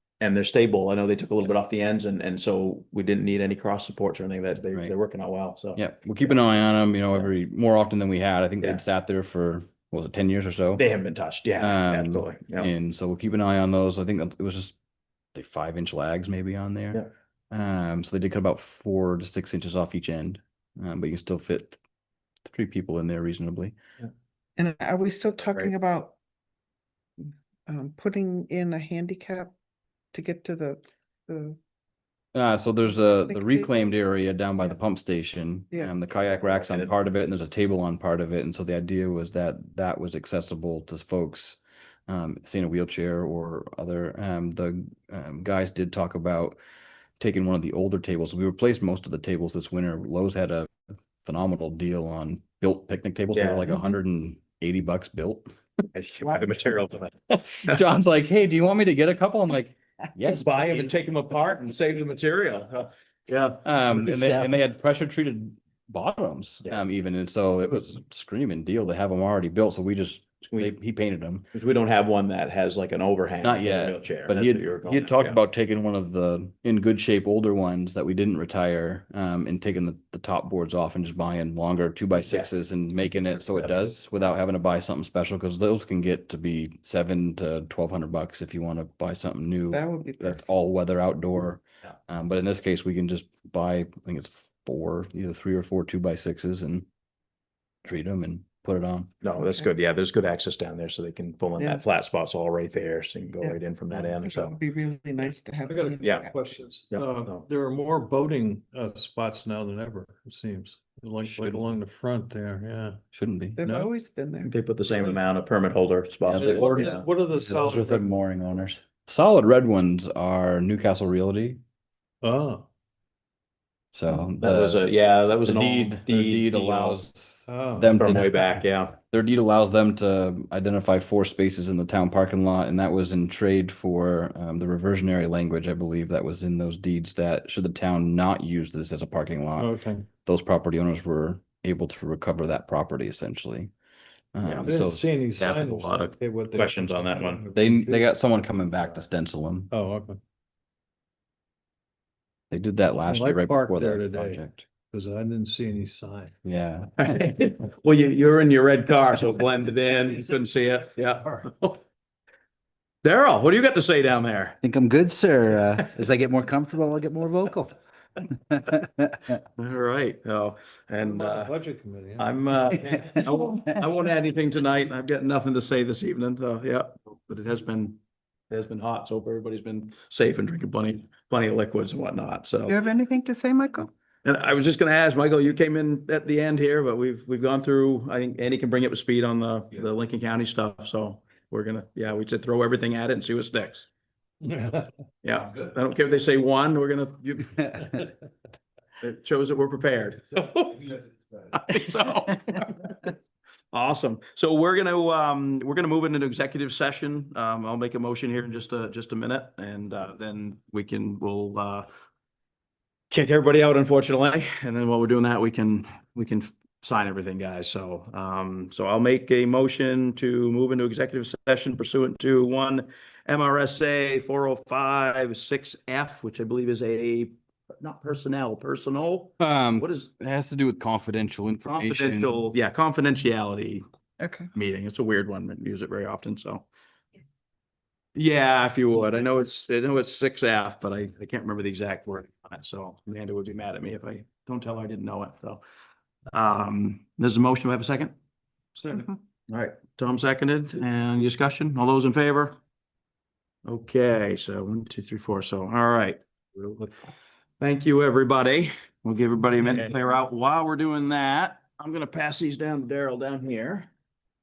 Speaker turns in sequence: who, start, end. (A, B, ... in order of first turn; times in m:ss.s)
0:00.2-0:06.4 A
0:05.8-0:10.8 B
0:10.8-0:12.7 A
0:11.6-0:14.8 B
0:15.3-0:21.8 B
0:22.4-0:23.7 B
0:24.6-0:26.1 C
0:25.4-0:25.7 A
0:27.2-0:29.5 C
0:30.1-0:31.6 C
0:32.3-0:46.6 B
0:33.3-0:33.8 C
0:36.4-0:36.9 A
0:47.2-0:50.7 B
0:51.2-0:55.5 B
0:53.3-0:53.7 A
0:55.9-0:57.8 A
0:57.5-1:00.9 B
1:00.3-1:03.6 A
1:03.6-1:11.5 B
1:04.0-1:04.4 D
1:11.5-1:15.4 A
1:13.4-1:36.8 B
1:22.2-1:22.5 A
1:23.1-1:23.8 A
1:29.7-1:30.4 C
1:37.8-1:39.1 B
1:39.2-1:44.5 A
1:39.4-1:39.7 C
1:41.6-1:41.8 C
1:44.2-1:46.4 C
1:45.6-1:53.0 E
1:46.0-1:46.2 A
1:46.9-1:47.4 A
1:51.2-1:51.6 B
1:53.1-1:53.6 B
1:53.6-1:54.5 C
1:53.6-1:53.9 E
1:54.4-1:57.1 A
1:56.2-1:56.7 B
1:56.4-1:58.1 E
1:57.5-2:01.6 B
1:57.6-1:58.0 D
2:02.2-2:02.6 E
2:03.9-2:23.7 B
2:04.4-2:07.0 A
2:07.5-2:08.0 E
2:08.0-2:09.0 A
2:19.6-2:20.1 E
2:24.3-2:25.1 B
2:24.4-2:24.7 A
2:24.6-2:28.1 E
2:25.4-2:27.4 A
2:27.5-2:29.7 B
2:29.7-2:30.2 E
2:32.5-2:34.6 B
2:33.0-2:36.3 E
2:36.4-2:37.2 B
2:37.0-2:41.8 A
2:43.0-2:44.6 A
2:44.6-2:47.8 D
2:48.3-2:49.4 D
2:49.6-2:51.5 A
2:51.0-2:53.2 E
2:52.2-2:58.0 A
2:58.5-3:02.8 A
3:02.7-3:03.9 C
3:04.2-3:13.9 A
3:14.4-3:14.9 E
3:15.2-3:17.7 A
3:19.0-3:23.1 A
3:23.7-3:31.9 A
3:33.1-3:50.1 A
3:49.4-3:52.5 B
3:51.6-3:53.8 A
3:54.2-3:54.5 C
3:54.5-3:56.6 A
3:58.1-4:05.6 A
4:06.3-4:08.1 A
4:08.8-4:12.6 A
4:13.6-4:16.9 A
4:17.6-4:23.9 A